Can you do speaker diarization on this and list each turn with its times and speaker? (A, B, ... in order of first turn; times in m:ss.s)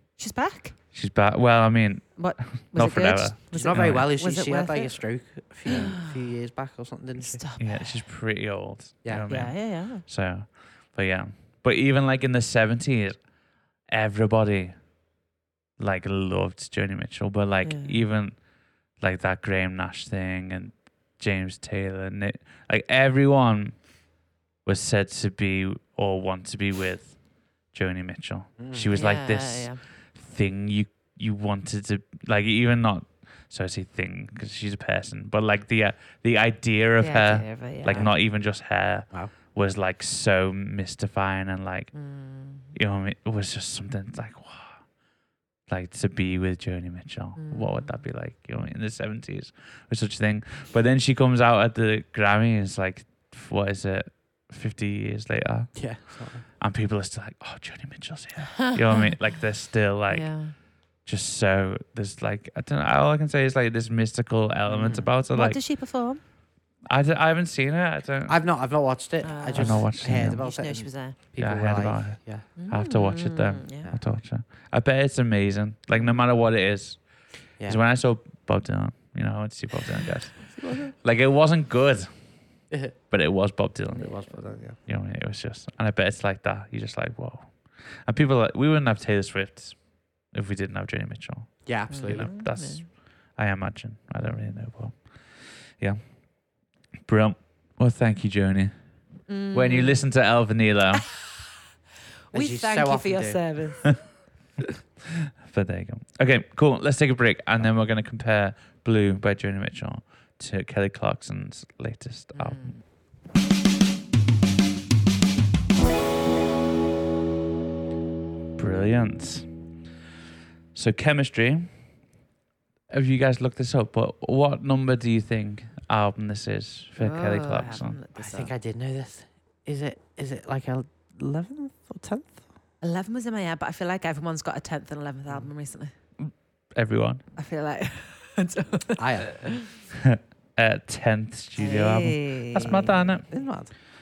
0:00.2-0:00.8 A
0:00.9-0:04.1 B
0:02.2-0:05.0 A
0:03.5-0:07.4 C
0:05.6-0:06.3 A
0:07.2-0:08.0 A
0:07.6-0:13.3 B
0:09.3-0:10.0 A
0:13.9-0:14.8 B
0:15.8-0:18.4 B
0:17.6-0:18.0 A
0:19.0-0:23.9 B
0:24.6-0:41.9 B
0:28.6-0:29.0 C
0:29.0-0:29.8 A
0:37.0-0:38.1 A
0:41.9-0:42.7 A
0:42.7-0:44.8 B
0:45.7-0:56.1 B
0:47.4-0:48.0 A
0:55.8-0:56.4 C
0:56.6-1:00.5 B
0:58.6-0:59.2 A
1:00.1-1:00.6 A
1:01.0-1:05.6 B
1:04.7-1:05.1 C
1:05.3-1:06.2 A
1:06.9-1:08.4 B
1:08.3-1:12.4 C
1:09.2-1:11.2 A
1:09.6-1:10.5 B
1:11.4-1:22.1 B
1:12.6-1:13.9 A
1:20.5-1:20.9 C
1:22.7-1:23.0 C
1:23.1-1:24.2 B
1:23.9-1:24.8 C
1:24.8-1:36.2 B
1:31.6-1:32.3 C
1:31.9-1:32.9 A
1:37.1-1:38.8 B
1:39.3-1:40.1 A
1:39.5-1:41.0 B
1:41.0-1:41.4 A
1:42.3-1:44.1 A
1:42.3-1:43.4 C
1:45.4-1:52.7 B
1:52.3-1:52.8 A
1:58.6-1:59.5 B
2:00.7-2:01.7 B
2:02.9-2:08.0 B
2:07.0-2:08.5 A
2:08.2-2:12.4 C
2:12.8-2:15.9 A
2:16.2-2:17.2 B
2:17.4-2:19.8 A
2:19.0-2:19.6 C
2:20.0-2:23.3 B
2:21.6-2:23.1 A
2:22.6-2:23.7 C